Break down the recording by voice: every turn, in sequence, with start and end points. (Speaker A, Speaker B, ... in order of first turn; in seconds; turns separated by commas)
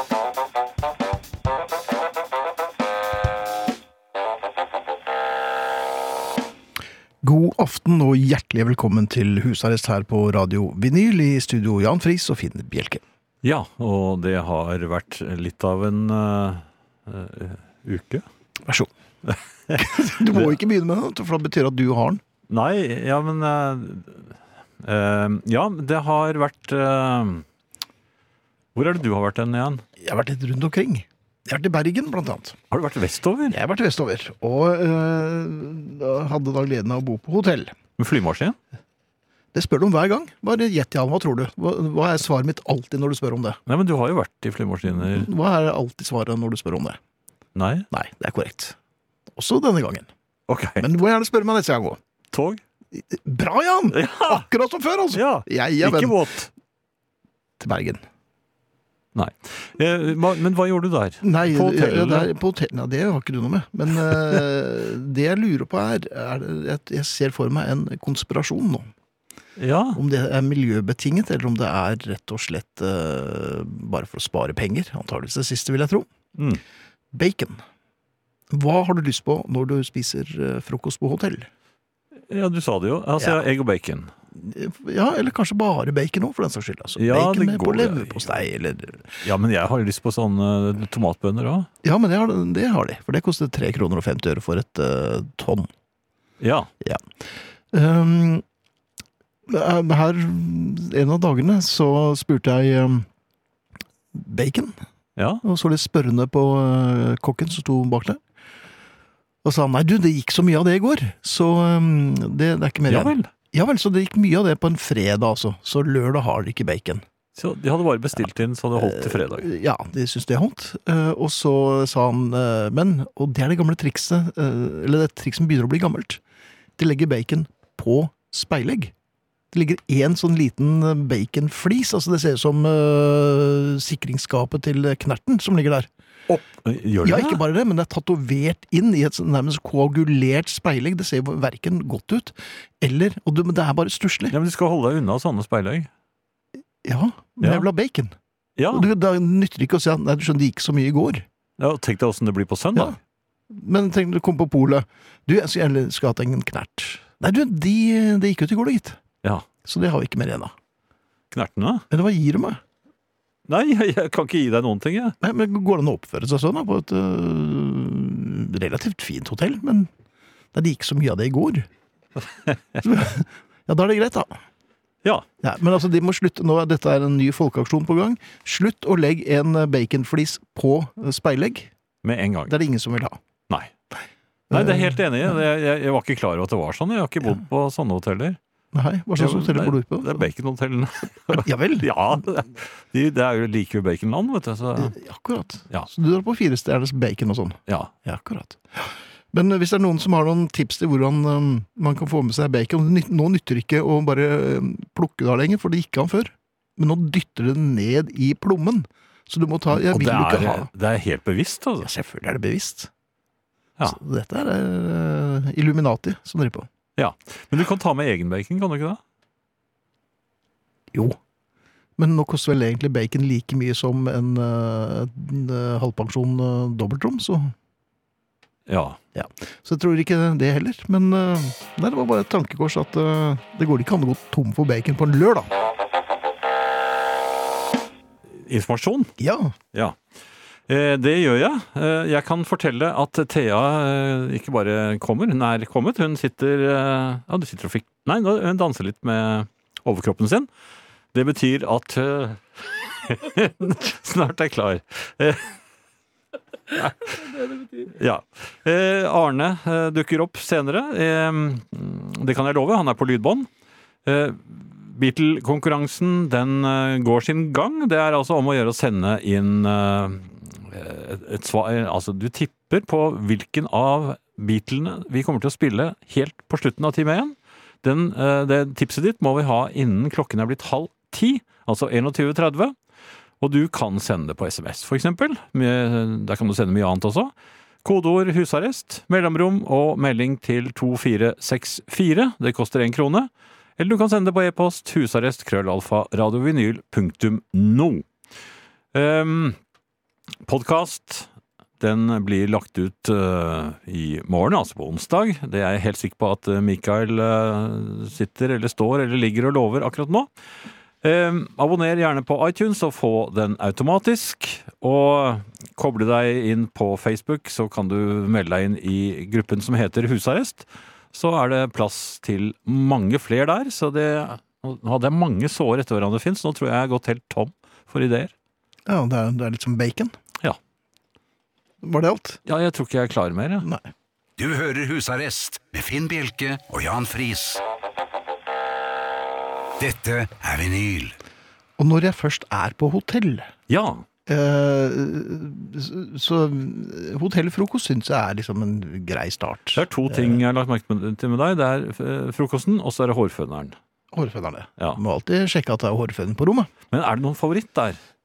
Speaker A: 7.2-13.0, Speaker B: 13.4-18.2, Speaker B: 19.3-20.5, Speaker A: 19.8-22.2, Speaker B: 22.5-24.3, Speaker B: 24.8-27.4, Speaker B: 28.7-29.8, Speaker A: 30.0-32.6, Speaker B: 32.7-33.6, Speaker A: 33.5-37.7, Speaker B: 38.0-38.6, Speaker A: 39.5-43.6, Speaker B: 43.7-45.3, Speaker A: 44.9-47.0, Speaker B: 47.5-47.9, Speaker A: 47.9-48.8, Speaker A: 49.3-50.1, Speaker B: 50.5-50.9, Speaker A: 50.8-52.0, Speaker B: 52.3-52.6, Speaker A: 52.9-56.1, Speaker B: 53.9-54.4, Speaker B: 55.1-56.5, Speaker A: 57.6-58.0, Speaker B: 59.1-62.3, Speaker A: 61.2-68.9, Speaker B: 69.6-70.0, Speaker A: 69.9-76.1, Speaker B: 76.3-76.6, Speaker A: 77.1-77.6, Speaker A: 78.5-81.5, Speaker B: 82.3-84.1, Speaker A: 84.3-89.2, Speaker B: 87.0-88.3, Speaker B: 89.2-91.7, Speaker A: 91.8-95.7, Speaker B: 96.4-96.7, Speaker A: 97.7-98.4, Speaker A: 99.5-103.1, Speaker A: 104.1-104.7, Speaker B: 105.2-105.4, Speaker A: 105.4-108.2, Speaker A: 109.4-117.0, Speaker B: 112.9-113.3, Speaker B: 117.3-119.5, Speaker A: 118.8-126.2, Speaker A: 126.8-128.9, Speaker A: 129.5-135.9, Speaker B: 136.3-137.4, Speaker A: 137.0-144.3, Speaker B: 144.3-145.9, Speaker A: 146.8-148.1, Speaker B: 147.4-147.7, Speaker B: 148.6-148.9, Speaker A: 148.7-151.2, Speaker B: 151.6-153.0, Speaker A: 153.5-159.0, Speaker A: 159.6-160.5, Speaker B: 161.3-161.8, Speaker A: 161.9-162.6, Speaker B: 163.5-165.2, Speaker A: 165.2-169.9, Speaker A: 170.5-171.7, Speaker B: 172.5-172.8, Speaker A: 172.8-174.4, Speaker A: 175.4-181.7, Speaker B: 182.0-182.5, Speaker A: 182.5-183.2, Speaker A: 184.5-185.4, Speaker B: 184.5-188.4, Speaker A: 188.7-190.3, Speaker B: 189.2-194.9, Speaker A: 191.3-191.9, Speaker A: 194.7-210.7, Speaker B: 209.7-211.9, Speaker A: 211.8-212.9, Speaker A: 213.8-216.7, Speaker B: 217.0-219.0, Speaker A: 220.9-221.2, Speaker A: 222.0-227.5, Speaker B: 228.7-229.0, Speaker A: 229.1-235.5, Speaker B: 238.4-239.1, Speaker A: 239.2-239.6, Speaker B: 240.7-250.5, Speaker B: 251.1-255.6, Speaker B: 256.7-257.3, Speaker B: 257.9-263.5, Speaker B: 264.1-282.7, Speaker B: 283.4-287.3, Speaker B: 287.8-298.0, Speaker B: 298.9-299.6, Speaker B: 300.4-301.3, Speaker B: 301.8-310.3, Speaker B: 311.0-328.3, Speaker A: 328.9-330.1, Speaker A: 331.8-332.4, Speaker B: 332.4-333.7, Speaker A: 333.6-333.9, Speaker C: 334.4-337.6, Speaker C: 339.8-341.1, Speaker A: 341.8-343.5, Speaker B: 343.7-344.0, Speaker A: 344.3-350.4, Speaker B: 349.7-353.7, Speaker A: 354.1-356.7, Speaker B: 356.9-358.0